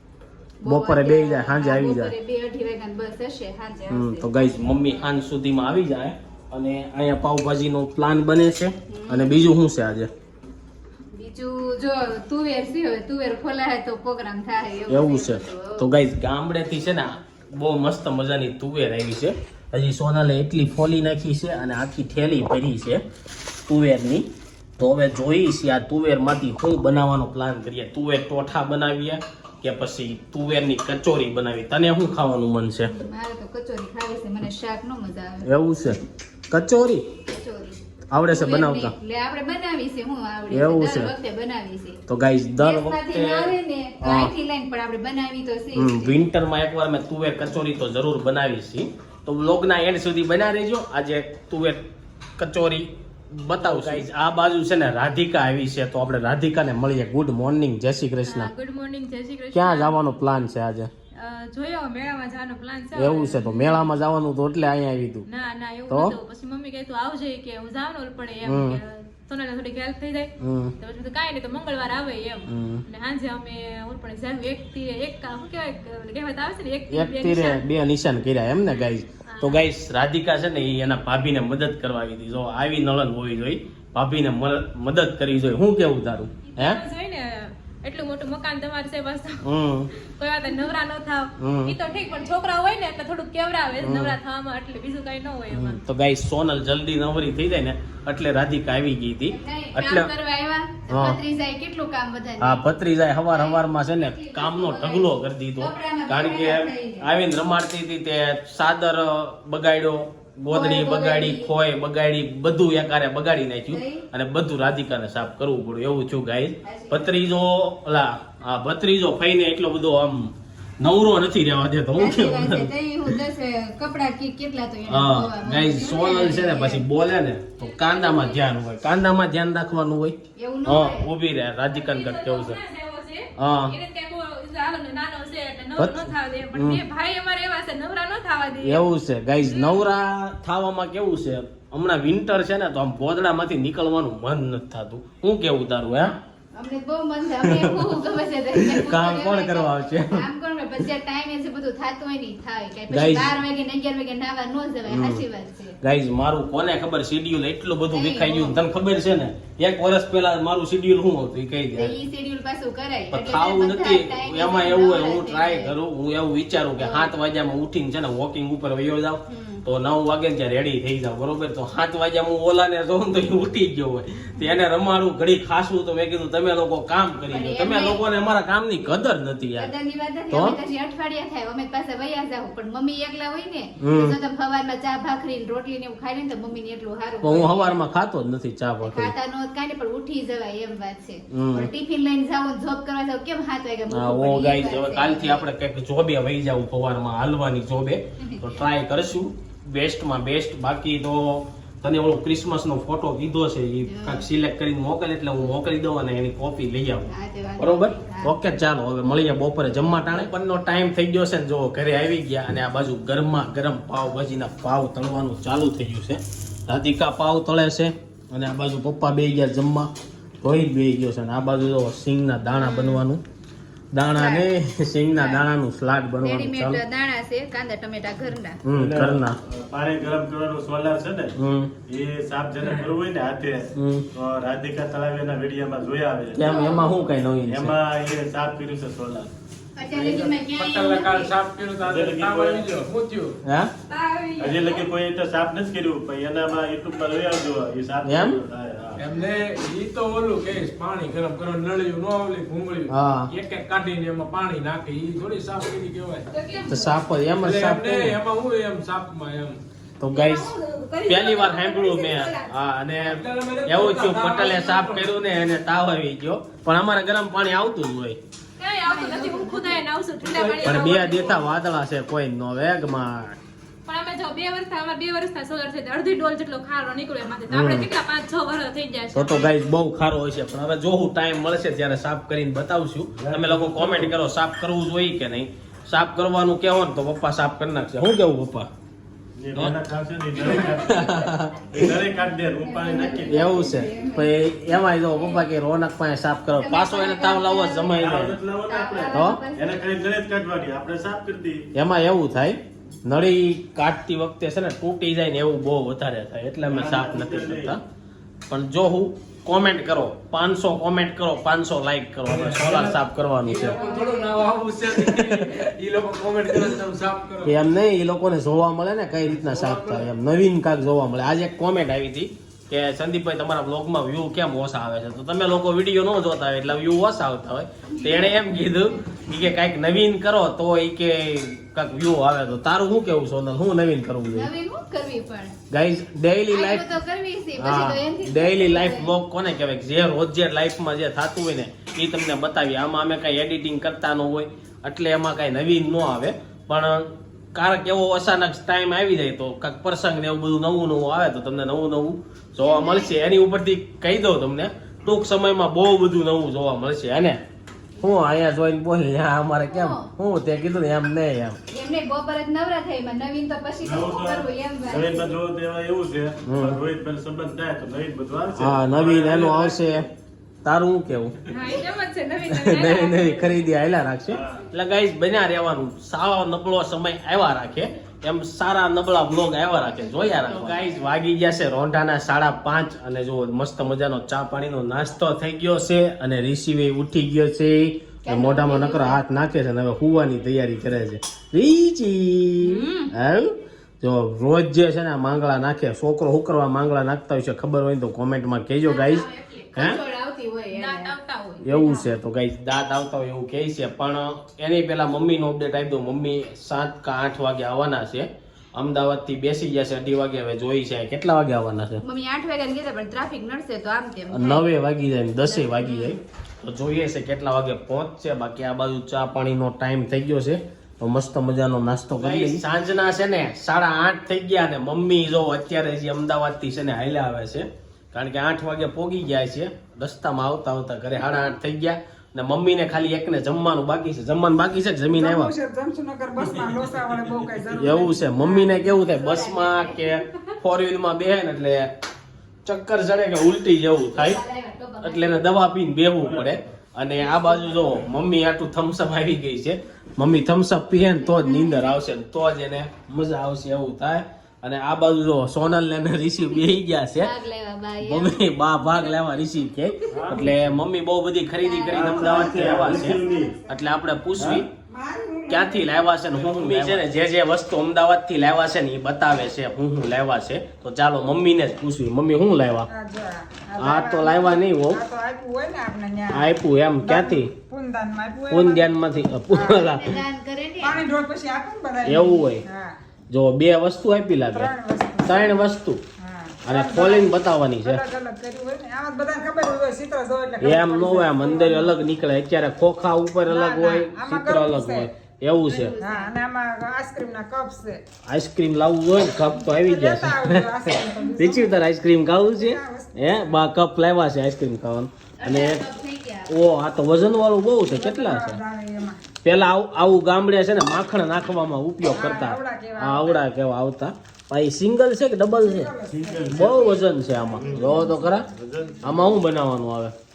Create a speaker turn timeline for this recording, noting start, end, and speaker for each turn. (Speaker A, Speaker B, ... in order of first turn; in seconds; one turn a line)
Speaker A: 0.6-4.4
Speaker B: 0.6-2.1
Speaker B: 3.9-10.1
Speaker A: 8.9-9.5
Speaker A: 11.1-15.9
Speaker B: 14.9-23.0
Speaker B: 23.7-32.9
Speaker A: 32.9-36.0
Speaker B: 35.4-37.0
Speaker A: 37.2-42.0
Speaker B: 38.1-38.9
Speaker B: 40.5-41.1
Speaker B: 42.1-44.3
Speaker A: 42.5-46.2
Speaker B: 45.7-51.8
Speaker B: 52.4-58.5
Speaker C: 58.2-60.0
Speaker B: 59.5-60.9
Speaker C: 61.1-63.9
Speaker B: 63.0-65.2
Speaker C: 65.2-77.6
Speaker B: 65.9-66.2
Speaker B: 68.4-68.8
Speaker B: 70.4-70.7
Speaker B: 72.5-72.8
Speaker B: 76.9-86.8
Speaker C: 78.8-79.7
Speaker C: 86.5-89.4
Speaker B: 89.4-89.9
Speaker C: 90.0-95.8
Speaker B: 91.4-91.7
Speaker B: 93.8-94.2
Speaker B: 95.5-100.1
Speaker A: 99.3-102.6
Speaker B: 100.9-101.2
Speaker B: 102.4-123.1
Speaker A: 103.2-107.1
Speaker A: 110.5-111.5
Speaker A: 113.7-114.1
Speaker A: 116.6-117.1
Speaker A: 122.0-126.8
Speaker B: 124.9-132.6
Speaker C: 127.6-128.4
Speaker A: 130.3-131.1
Speaker C: 131.7-139.9
Speaker B: 133.4-133.8
Speaker B: 135.8-136.8
Speaker B: 138.6-146.2
Speaker A: 146.5-155.8
Speaker B: 147.4-148.0
Speaker B: 148.5-150.3
Speaker B: 152.9-153.4
Speaker B: 154.9-155.2
Speaker B: 155.8-162.0
Speaker A: 157.9-158.6
Speaker A: 161.7-165.7
Speaker B: 163.1-179.7
Speaker A: 166.8-167.1
Speaker A: 169.3-169.7
Speaker A: 177.3-178.0
Speaker A: 179.5-187.8
Speaker B: 180.3-180.6
Speaker B: 183.8-184.2
Speaker B: 187.2-189.1
Speaker A: 188.8-195.4
Speaker B: 191.3-191.7
Speaker B: 193.9-219.9
Speaker A: 203.8-204.3
Speaker A: 207.1-208.3
Speaker B: 220.4-223.2
Speaker A: 222.6-223.0
Speaker B: 223.9-226.8
Speaker A: 224.1-224.5
Speaker A: 225.1-225.4
Speaker A: 226.2-228.6
Speaker B: 228.6-229.4
Speaker D: 228.7-231.3
Speaker B: 231.4-231.7
Speaker D: 231.9-236.4
Speaker B: 233.8-234.1
Speaker B: 236.3-237.7
Speaker A: 236.4-237.0
Speaker D: 237.4-239.3
Speaker A: 239.8-241.3
Speaker E: 239.9-243.4
Speaker D: 241.8-242.8
Speaker B: 243.4-243.7
Speaker A: 243.9-244.8
Speaker D: 244.4-249.1
Speaker B: 248.0-248.4
Speaker E: 248.9-256.3
Speaker B: 252.9-253.3
Speaker A: 256.3-257.0
Speaker B: 256.7-258.2
Speaker E: 257.4-259.6
Speaker B: 260.0-260.5
Speaker A: 260.1-262.5
Speaker B: 261.1-268.2
Speaker E: 263.0-265.1
Speaker C: 268.6-271.5
Speaker A: 268.8-269.8
Speaker E: 270.3-270.6
Speaker B: 270.6-273.4
Speaker C: 273.9-279.5
Speaker B: 277.5-277.9
Speaker B: 279.1-288.7
Speaker D: 283.2-284.1
Speaker D: 289.4-291.0
Speaker B: 290.4-291.9
Speaker A: 290.5-291.3
Speaker D: 291.7-293.5
Speaker A: 292.5-295.4
Speaker B: 293.2-298.4
Speaker A: 296.5-298.0
Speaker D: 298.0-301.7
Speaker A: 298.6-299.8
Speaker B: 299.1-299.4
Speaker B: 301.7-307.8
Speaker D: 306.6-307.8
Speaker B: 308.5-313.8
Speaker E: 312.2-317.6
Speaker A: 313.7-314.4
Speaker B: 314.9-315.6
Speaker B: 317.4-334.5
Speaker E: 319.3-320.1
Speaker A: 334.3-335.5
Speaker B: 335.7-336.8
Speaker A: 336.5-339.1
Speaker B: 337.6-357.4
Speaker A: 352.6-353.1
Speaker A: 358.0-358.3
Speaker B: 358.0-361.6
Speaker A: 359.6-360.1
Speaker A: 361.7-365.3
Speaker D: 363.8-370.1
Speaker B: 366.4-366.8
Speaker B: 368.6-370.1
Speaker B: 370.6-371.4
Speaker C: 371.5-373.7
Speaker B: 372.5-400.0
Speaker D: 374.3-374.6
Speaker A: 380.4-380.8
Speaker A: 388.2-389.2
Speaker A: 392.6-393.1
Speaker A: 398.8-401.1
Speaker C: 400.7-402.0
Speaker B: 401.6-412.0
Speaker A: 412.0-414.6
Speaker B: 414.3-435.5
Speaker A: 415.4-416.2
Speaker D: 422.2-422.6
Speaker F: 435.1-438.8
Speaker D: 436.4-437.5
Speaker B: 437.7-441.9
Speaker A: 438.8-440.2
Speaker B: 442.6-444.4
Speaker A: 444.1-445.5
Speaker B: 445.0-457.3
Speaker D: 446.2-446.7
Speaker A: 447.2-447.8
Speaker A: 451.4-451.9
Speaker A: 457.2-458.4
Speaker B: 458.0-464.6
Speaker D: 460.1-460.7
Speaker A: 461.6-462.0
Speaker D: 461.9-463.5
Speaker F: 462.0-463.8
Speaker D: 464.4-464.6
Speaker F: 464.9-465.9
Speaker B: 465.5-472.9
Speaker D: 466.3-467.0
Speaker F: 472.9-478.9
Speaker B: 473.8-475.0
Speaker B: 476.3-477.5
Speaker B: 478.5-480.2
Speaker F: 479.5-480.1
Speaker A: 480.0-481.0
Speaker F: 480.8-482.9
Speaker B: 482.1-482.6
Speaker B: 483.3-484.7
Speaker F: 484.5-485.6
Speaker B: 485.2-486.0
Speaker F: 486.2-491.9
Speaker B: 486.6-488.0
Speaker B: 490.6-495.9
Speaker F: 493.4-495.1
Speaker A: 495.7-496.4
Speaker F: 495.8-498.0
Speaker B: 498.3-500.8
Speaker F: 499.7-501.8
Speaker B: 501.4-505.9
Speaker F: 502.4-503.6
Speaker A: 505.4-506.5
Speaker B: 506.5-508.6
Speaker F: 507.9-509.2
Speaker B: 509.4-515.9
Speaker F: 512.1-513.4
Speaker F: 515.5-519.0
Speaker D: 516.1-516.9
Speaker B: 516.5-518.5
Speaker D: 517.6-519.0
Speaker B: 519.0-520.1